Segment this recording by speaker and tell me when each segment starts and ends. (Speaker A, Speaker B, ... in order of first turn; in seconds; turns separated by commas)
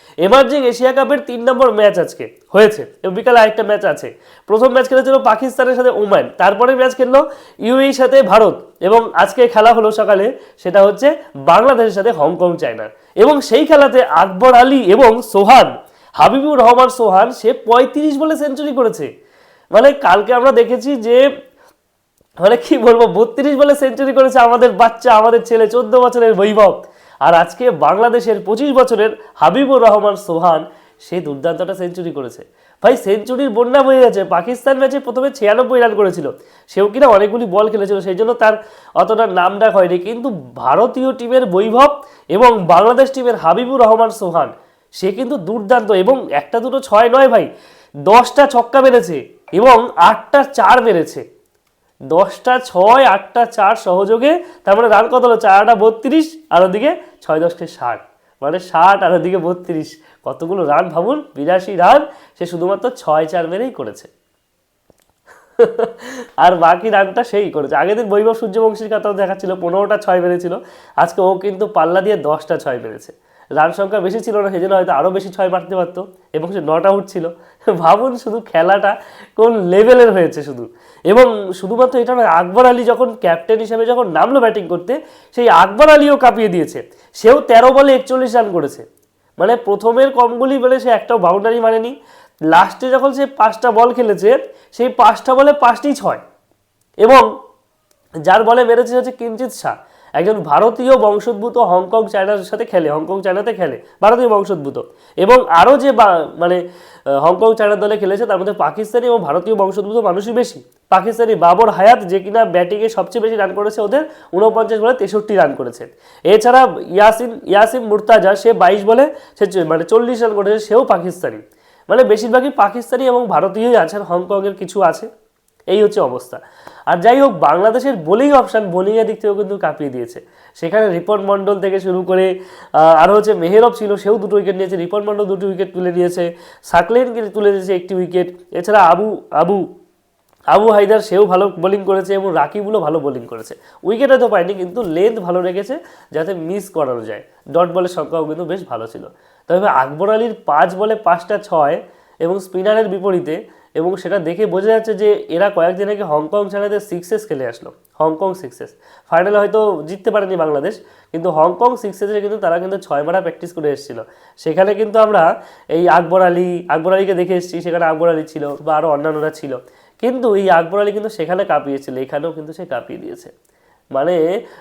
Speaker A: 0.2-19.1, Speaker A: 19.7-21.2, Speaker A: 22.4-47.5, Speaker A: 48.1-51.2, Speaker A: 52.1-64.1, Speaker A: 65.6-88.8, Speaker A: 89.4-91.9, Speaker A: 92.5-96.2, Speaker A: 97.0-97.3, Speaker A: 98.3-106.6, Speaker A: 107.2-125.1, Speaker A: 125.7-139.7, Speaker A: 140.5-173.3, Speaker A: 173.9-174.2